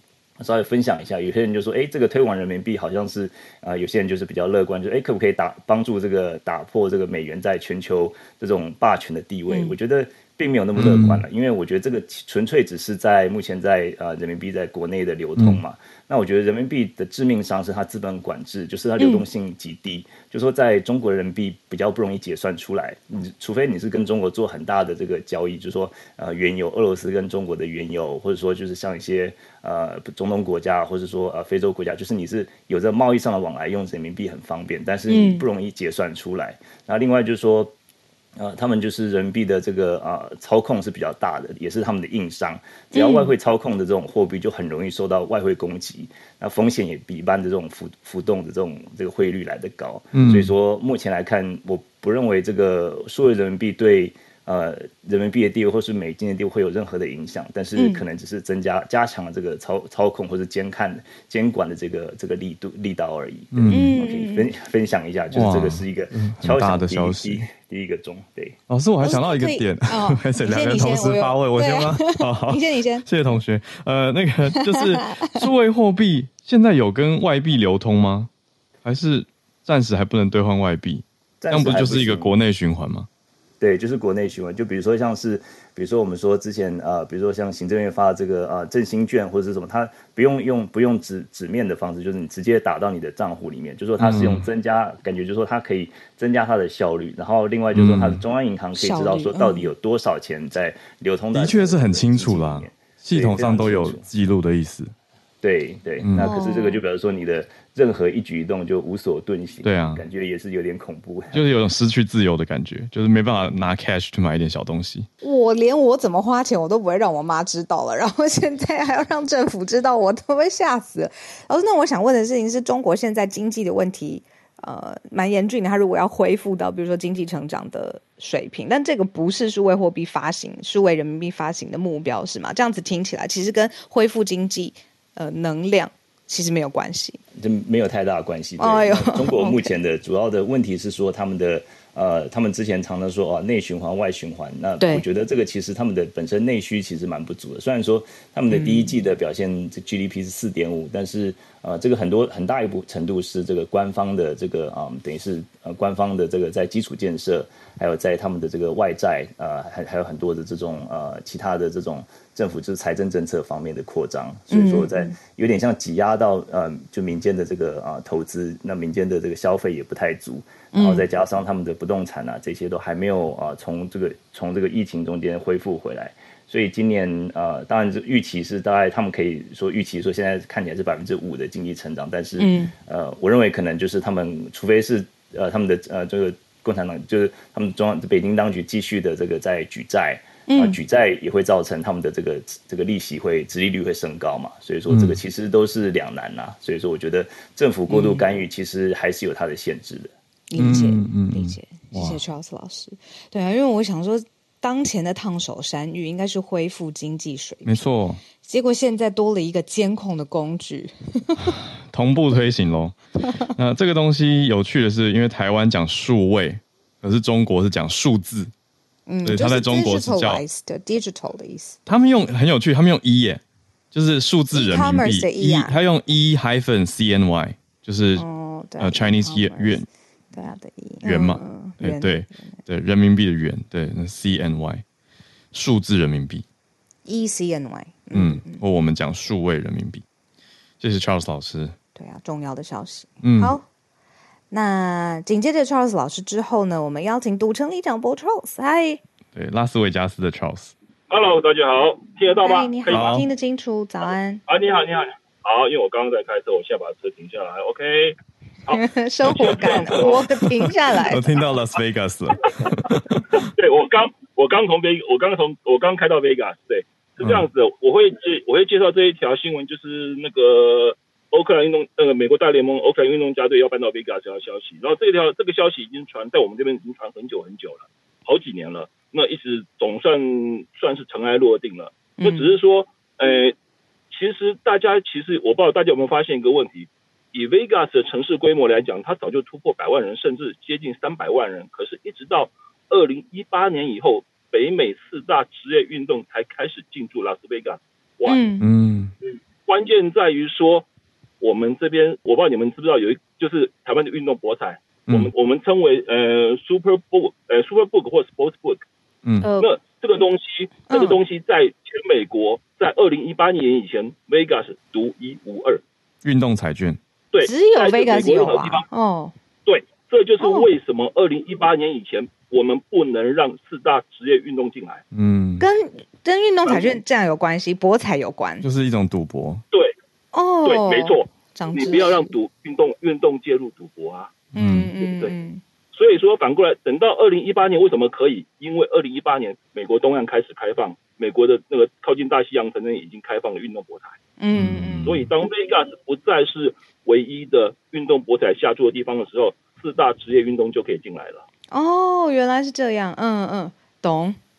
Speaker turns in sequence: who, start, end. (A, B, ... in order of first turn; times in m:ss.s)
0:00.4-0:37.7 A
0:10.8-0:11.2 B
0:15.4-0:15.6 B
0:19.0-0:19.2 C
0:35.1-0:35.4 C
0:38.4-1:08.6 A
0:42.9-0:43.3 C
0:50.2-0:50.5 B
0:57.8-0:58.0 C
1:03.5-1:04.0 B
1:03.7-1:04.5 C
1:05.3-1:07.5 B
1:08.7-1:18.3 B
1:09.0-1:13.0 C
1:14.6-1:15.4 C
1:18.8-1:23.1 B
1:21.4-1:22.3 A
1:23.6-1:44.1 A
1:34.0-1:34.5 B
1:37.7-1:38.2 B
1:38.8-1:39.7 C
1:41.3-1:44.9 B
1:45.4-1:51.4 A
1:46.0-1:46.4 B
1:46.2-1:46.8 C
1:49.6-1:50.0 B
1:51.3-1:55.1 B
1:55.2-2:17.2 C
2:17.4-3:20.1 A
2:18.6-2:19.7 C
2:28.5-2:28.9 C
2:44.5-2:45.2 C
2:50.7-2:51.0 C
3:02.4-3:02.7 C
3:10.5-3:10.8 C
3:14.9-3:15.2 B
3:17.9-3:18.2 C
3:20.5-3:27.8 C
3:20.6-3:22.2 B
3:27.6-3:28.2 B
3:28.4-3:31.6 C
3:31.4-3:33.0 B
3:33.6-3:38.5 B
3:39.1-3:41.8 C
3:39.2-3:40.4 B
3:41.9-3:48.3 B
3:44.5-3:45.8 C
3:48.2-3:52.6 C
3:48.8-3:49.9 B
3:51.0-3:54.8 B
3:55.5-3:56.4 B
3:57.0-3:58.6 C
3:58.1-4:00.0 B
4:00.8-4:01.8 B
4:02.0-4:03.7 C
4:03.2-4:03.6 B
4:04.5-4:09.0 C
4:09.3-4:10.7 B
4:11.1-4:13.2 D
4:12.4-4:14.4 C
4:12.9-4:13.3 B
4:14.5-4:20.2 D
4:18.7-4:21.2 C
4:19.4-4:20.2 B
4:20.9-4:23.5 B
4:22.6-4:43.6 D
4:27.2-4:27.5 B
4:42.2-4:42.6 C
4:44.1-4:58.4 D
4:58.3-4:58.6 C
4:58.6-4:59.1 B
4:59.2-5:00.9 D
5:01.4-5:08.8 D
5:09.4-5:09.7 C
5:09.6-5:15.8 D
5:10.9-5:11.2 C
5:16.2-5:17.0 B
5:17.3-5:18.9 D
5:17.4-5:19.3 C
5:19.7-5:25.0 D
5:20.4-5:20.7 C
5:25.1-5:25.7 B
5:25.6-5:28.6 C
5:28.6-5:29.6 B
5:30.3-5:32.3 C
5:30.6-5:34.4 D
5:34.6-5:34.9 B
5:34.6-5:35.6 C
5:35.0-5:35.3 D
5:35.9-5:44.2 D
5:44.4-5:45.2 C
5:44.5-5:45.3 B
5:45.0-5:51.4 D
5:51.7-5:54.4 C